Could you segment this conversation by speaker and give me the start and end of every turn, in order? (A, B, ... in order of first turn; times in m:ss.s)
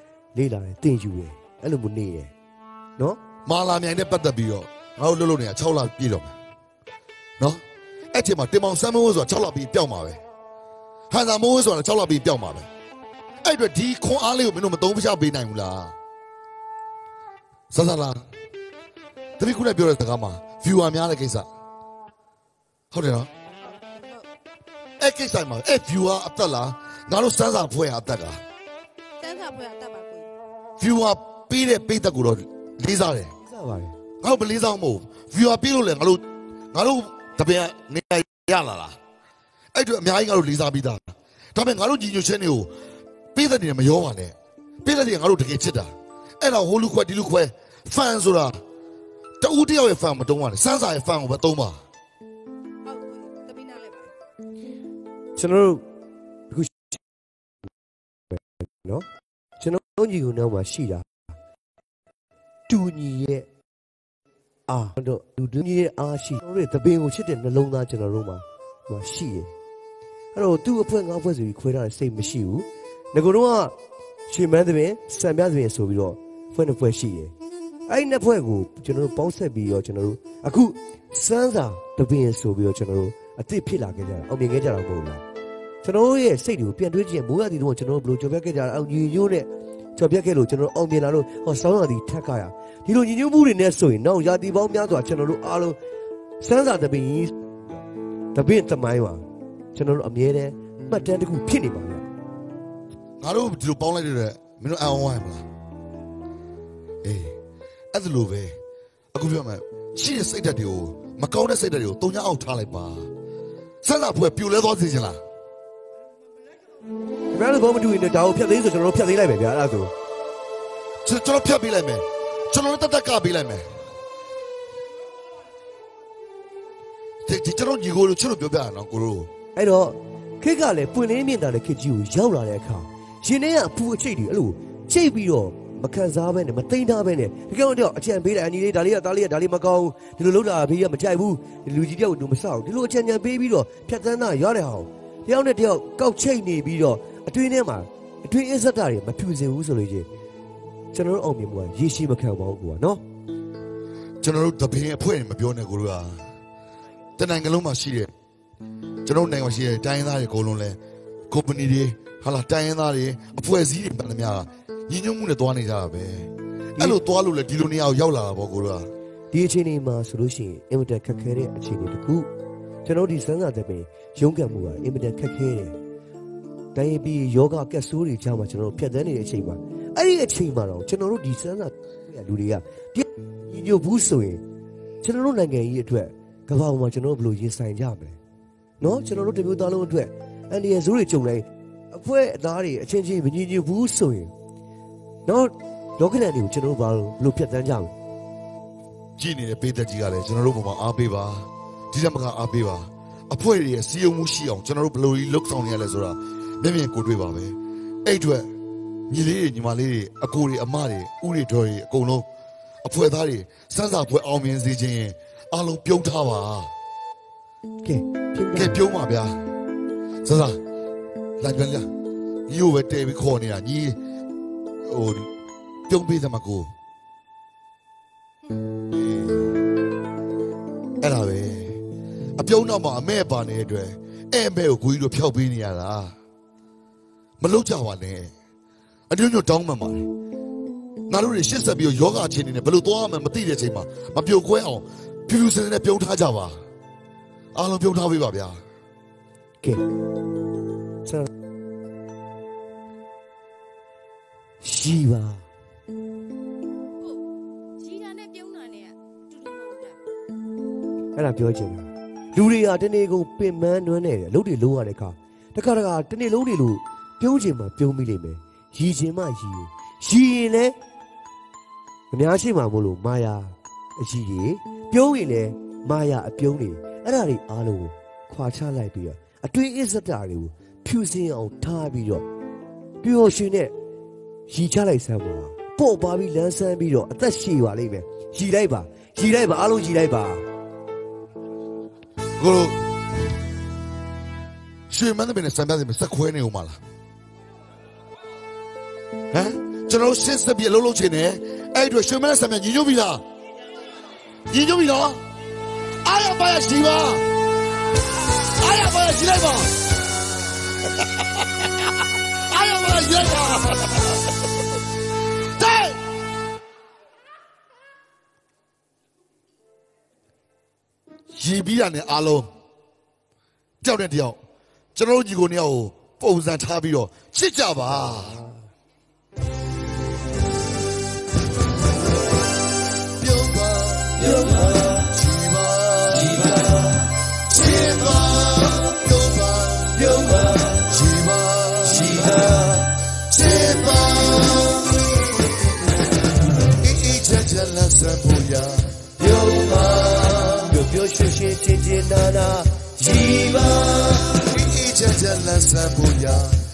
0:00.3-0:02.3 A
0:03.4-0:06.3 B
0:08.1-0:10.2 B
0:11.1-0:12.7 B
0:13.4-0:15.9 B
0:17.7-0:18.2 B
0:19.4-0:21.5 B
0:22.9-0:23.3 B
0:23.8-0:24.2 C
0:25.0-0:28.4 B
0:29.2-0:30.2 C
0:30.8-0:33.3 B
0:33.4-0:33.9 A
0:34.2-0:36.2 B
0:36.7-0:39.0 B
0:39.7-0:42.7 B
0:43.3-0:48.6 B
0:49.4-0:51.8 B
0:52.9-0:54.0 C
0:55.4-0:55.8 A
0:56.5-0:57.0 A
0:58.3-0:59.0 A
0:59.6-1:01.0 A
1:02.7-1:03.4 A
1:04.7-1:09.5 A
1:10.3-1:13.7 A
1:14.3-1:17.3 A
1:17.9-1:25.2 A
1:25.8-1:35.8 A
1:36.4-1:37.3 A
1:38.3-1:39.2 A
1:39.7-1:42.0 A
1:43.2-1:45.4 B
1:47.0-1:47.3 B
1:47.9-1:48.5 B
1:49.1-1:53.1 B
1:53.8-1:55.2 B
1:57.3-1:59.9 A
2:01.0-2:03.6 B
2:07.2-2:09.3 B
2:09.6-2:30.1 A
2:30.9-2:33.0 A
2:34.2-2:36.2 B
2:37.2-2:38.1 B
2:39.0-2:40.8 B
2:41.3-2:48.9 B
2:49.3-2:52.3 A
2:52.8-2:55.7 A
2:56.7-3:04.4 A
3:05.0-3:08.2 A
3:08.8-3:14.3 A
3:15.2-3:17.9 A
3:19.2-3:28.5 B
3:29.1-3:32.2 B
3:32.8-3:36.7 B
3:37.8-3:38.8 A
3:38.5-3:39.4 B
3:40.2-3:40.6 B
3:41.4-3:41.9 B
3:42.5-3:44.0 B
3:44.8-3:45.3 B
3:45.9-3:46.7 B
3:48.9-3:49.4 B
3:51.0-3:51.8 B
3:52.4-3:56.1 B
3:57.4-3:58.3 B
3:59.1-4:00.1 B
4:01.1-4:06.6 B
4:07.5-4:08.6 B
4:14.6-4:15.4 A
4:17.8-4:20.0 D
4:21.1-4:30.7 A
4:32.1-4:42.2 A
4:43.0-4:43.7 A
4:44.5-4:50.4 A
4:52.4-4:52.8 B
4:54.9-4:56.8 B
4:59.3-5:03.2 B
5:04.5-5:05.2 B
5:06.0-5:07.2 B
5:08.5-5:09.7 B
5:12.5-5:14.2 B
5:15.6-5:16.0 B
5:21.3-5:22.5 B
5:23.8-5:24.4 B
5:24.9-5:28.4 B
5:33.2-5:36.5 B
5:37.5-5:42.6 B
5:43.3-5:44.9 B
5:46.8-5:50.6 B
5:50.5-5:54.1 A
5:54.3-5:56.6 B